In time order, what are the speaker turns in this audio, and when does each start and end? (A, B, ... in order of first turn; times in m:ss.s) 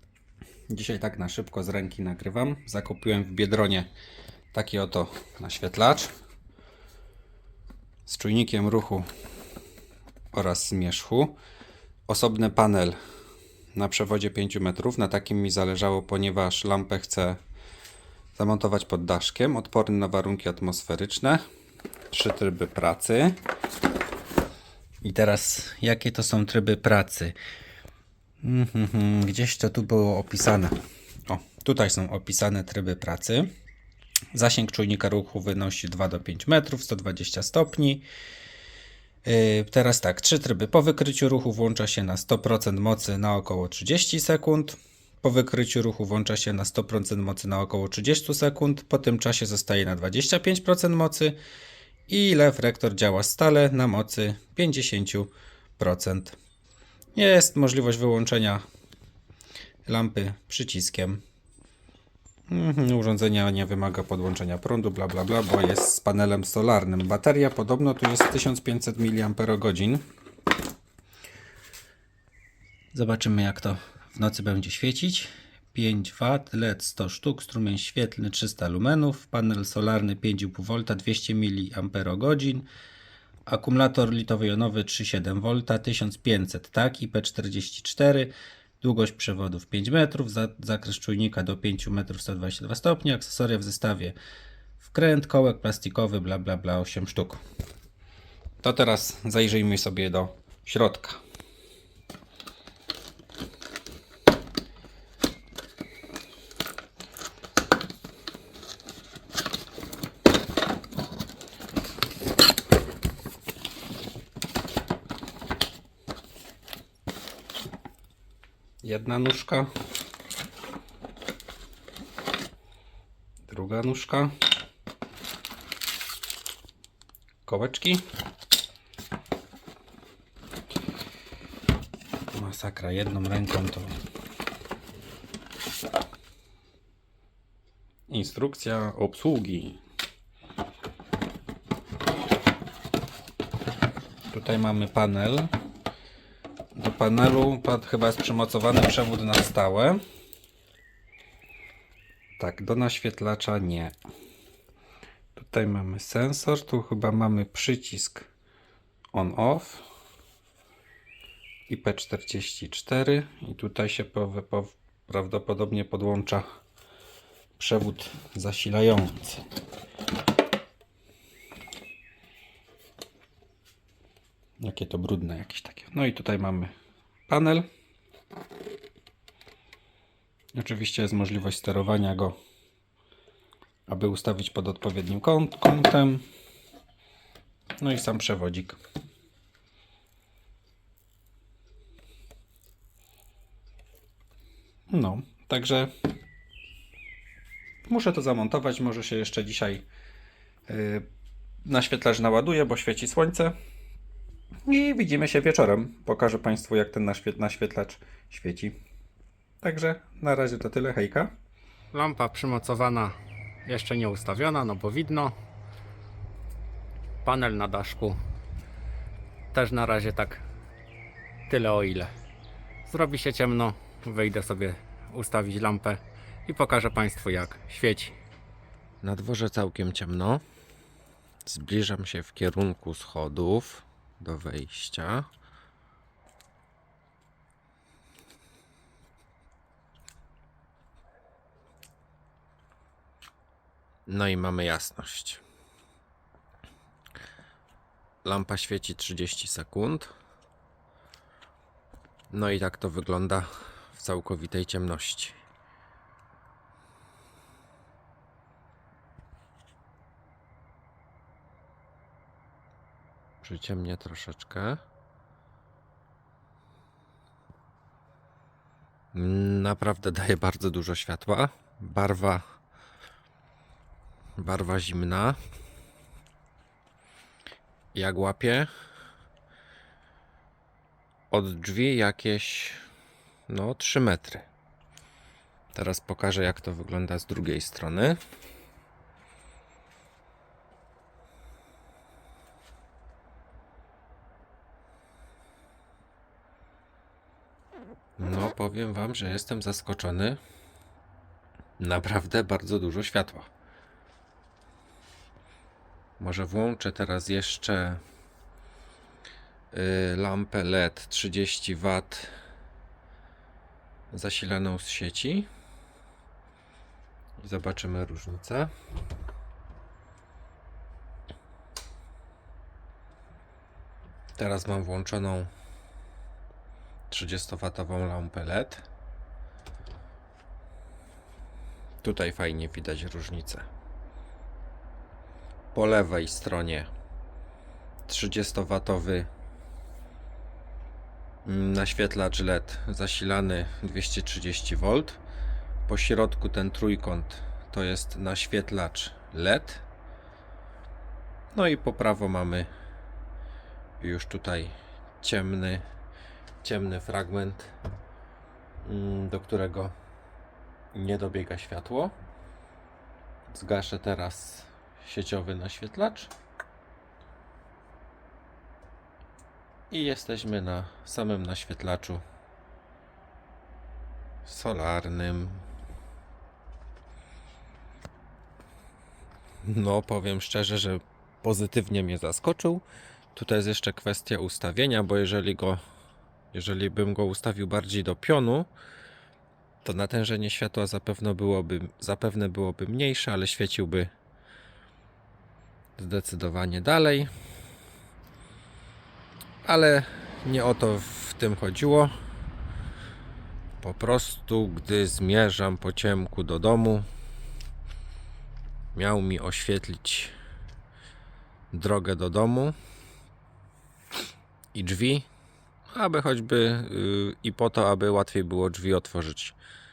0:00.7-0:03.9 A
0:04.5-0:06.1 A
0:08.1-0:09.1 A
0:10.3-0:11.4 A
0:12.1-0:13.0 A
0:13.8-0:17.4 A
0:18.4-0:21.4 A
0:22.1-0:23.4 A
0:25.0-0:27.3 A
0:28.4-0:33.5 A
0:34.3-0:38.0 A
0:39.2-0:51.4 A
0:52.1-0:56.4 A
0:57.2-0:58.6 A
0:59.9-1:01.2 A
1:02.5-1:10.0 A
1:12.9-1:22.7 A
1:23.5-1:34.2 A
1:34.8-1:37.4 A
1:38.6-1:41.2 A
1:58.8-1:59.7 A
2:03.5-2:04.3 A
2:07.5-2:08.0 A
2:12.3-2:13.9 A
2:18.1-2:19.8 A
2:24.3-2:25.5 A
2:26.8-2:30.0 A
2:32.4-2:34.0 A
2:35.4-2:38.3 A
2:39.1-2:39.8 A
2:41.7-2:46.4 A
2:47.6-2:49.4 A
2:54.6-2:56.7 A
2:57.3-2:57.7 A
3:00.6-3:02.4 A
3:03.9-3:06.3 A
3:07.8-3:08.8 A
3:14.9-3:15.9 A
3:17.9-3:19.9 A
3:20.7-3:21.1 A
3:21.6-3:23.5 A
3:24.7-3:28.8 A
3:29.6-3:31.3 A
3:31.9-3:33.1 B
3:33.7-3:35.3 B
3:37.2-3:38.2 B
3:39.5-3:40.4 B
3:41.5-3:42.1 B
3:42.9-3:48.2 B
3:49.0-3:50.4 C
3:51.4-3:55.3 C
4:04.1-4:05.4 C
4:08.2-4:10.1 C
4:12.3-4:15.4 C
4:23.4-4:24.8 C
4:29.1-4:32.4 C
4:34.4-4:35.4 C
4:38.0-4:38.7 C
4:41.3-4:42.8 C
4:43.5-4:44.4 C
4:45.7-4:48.2 C
4:58.2-5:00.4 C
5:01.8-5:03.5 C
5:06.2-5:08.0 C
5:09.7-5:12.3 C
5:14.1-5:15.5 C
5:17.4-5:18.7 C
5:24.4-5:25.5 C
5:27.1-5:28.0 A
5:27.3-5:28.9 C
5:32.0-5:33.6 C
5:35.7-5:36.8 A
5:36.0-5:36.9 C
5:38.1-5:39.3 A
5:41.5-5:45.2 C
5:42.7-5:43.2 A
5:45.9-5:47.3 C
5:46.8-5:49.8 A
5:48.0-5:48.4 C
5:48.9-5:49.8 C
5:51.5-5:52.7 C
5:54.0-5:55.8 C
5:56.6-5:57.7 C
5:58.8-5:59.9 C
6:00.9-6:02.1 C
6:03.5-6:06.3 C
6:09.9-6:12.2 C
6:14.4-6:15.7 C
6:19.6-6:22.8 C
6:23.3-6:25.8 C
6:26.5-6:28.7 C
6:29.9-6:34.1 C
6:31.9-6:32.2 A
6:36.0-6:37.3 C
6:39.7-6:40.8 A
6:39.8-6:42.1 C
6:43.8-6:47.1 C
6:48.9-6:50.3 C
6:51.7-6:52.8 C
6:54.8-6:55.3 C
6:56.0-6:59.6 C